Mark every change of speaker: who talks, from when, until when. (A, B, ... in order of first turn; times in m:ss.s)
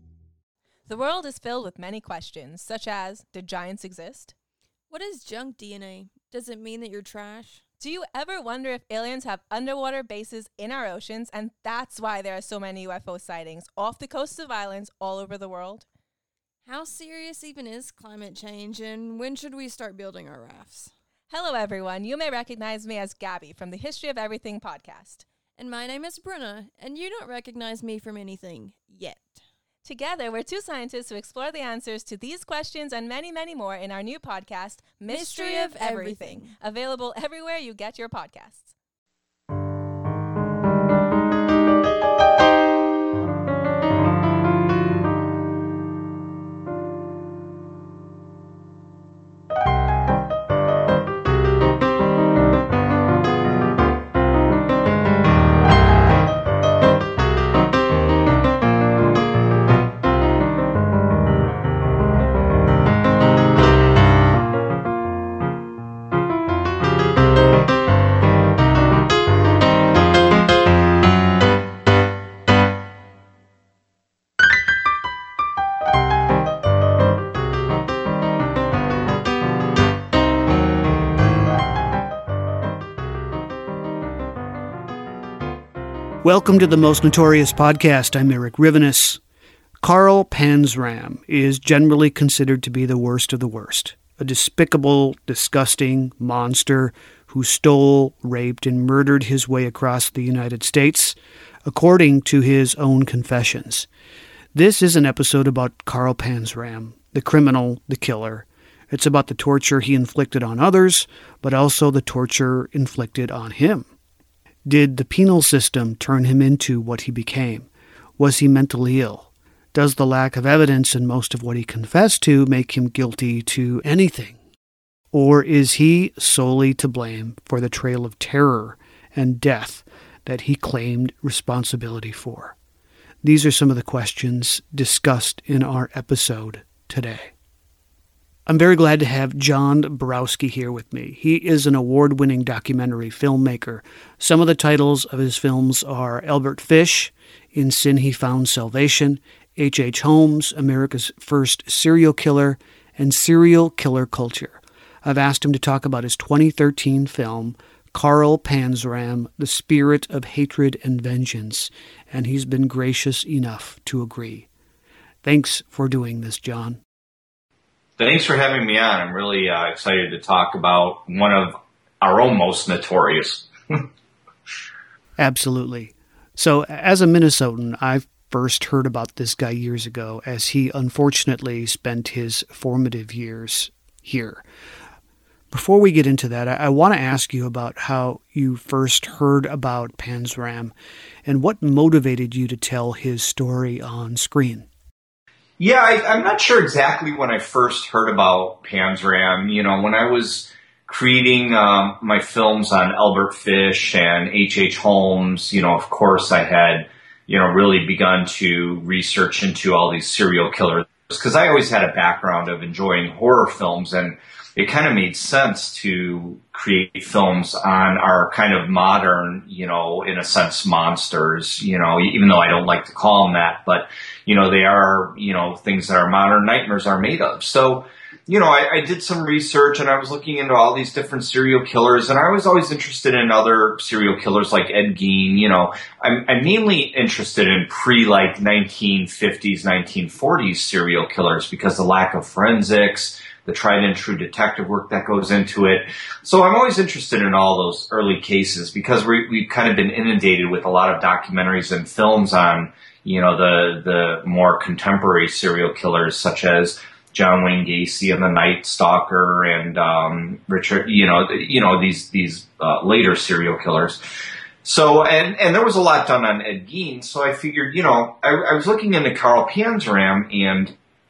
0:00.9-0:04.3 A
0:04.9-0:07.6 B
0:07.8-0:15.8 A
0:16.6-0:20.9 B
0:21.3-0:25.2 A
0:25.6-0:29.4 B
0:29.8-0:38.7 A
0:35.1-0:36.5 B
1:26.2-1:29.2 C
1:29.8-1:43.9 C
1:44.5-1:53.9 C
1:54.6-1:57.7 C
1:58.2-2:04.4 C
2:05.1-2:12.5 C
2:13.2-2:17.3 C
2:18.4-2:44.5 C
2:45.2-2:46.8 C
2:48.0-2:53.8 D
2:55.2-3:04.4 C
3:05.5-3:10.7 C
3:11.2-3:14.7 C
3:15.6-4:24.0 D
4:24.6-4:30.7 D